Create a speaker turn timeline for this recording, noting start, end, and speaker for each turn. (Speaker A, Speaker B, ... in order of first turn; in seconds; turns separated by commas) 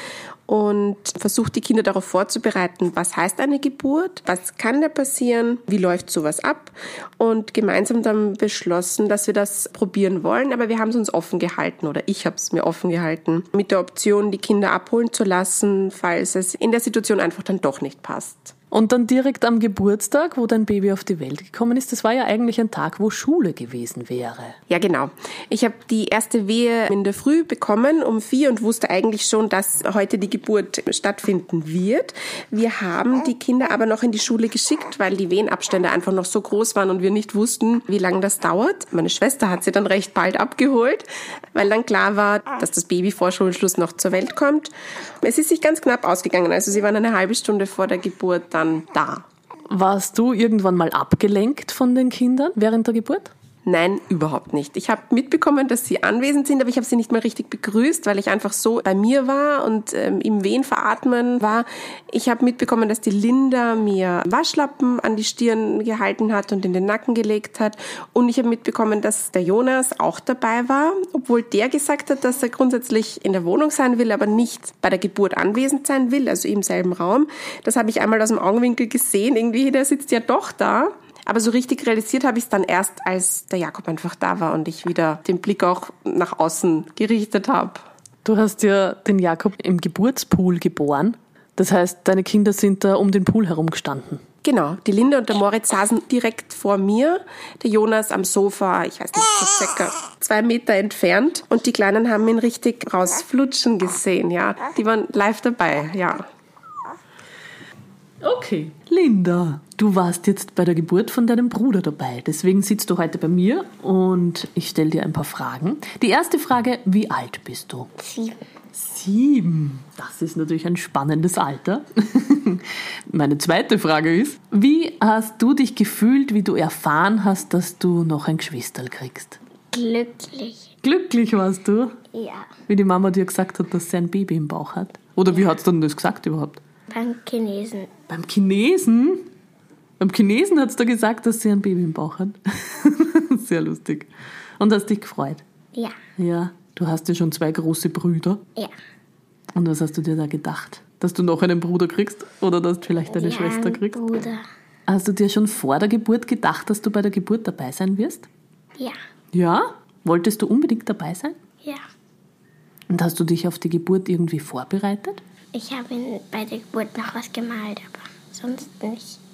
Speaker A: 0.5-18.5, Speaker B: 18.7-24.6, Speaker A: 24.7-49.2, Speaker B: 49.7-53.3, Speaker A: 53.6-87.8, Speaker B: 88.2-94.2, Speaker A: 94.4-106.2, Speaker B: 108.2-117.9, Speaker C: 118.0-118.4, Speaker B: 118.7-129.4, Speaker C: 129.7-130.7, Speaker B: 130.8-132.0, Speaker C: 132.1-132.5, Speaker B: 132.7-136.6, Speaker C: 136.9-137.9, Speaker B: 138.1-139.3, Speaker B: 140.0-145.4, Speaker B: 146.2-148.4, Speaker B: 149.5-154.0, Speaker C: 153.1-154.4, Speaker B: 154.9-158.3, Speaker B: 159.3-161.3, Speaker B: 162.9-165.2, Speaker C: 165.5-169.2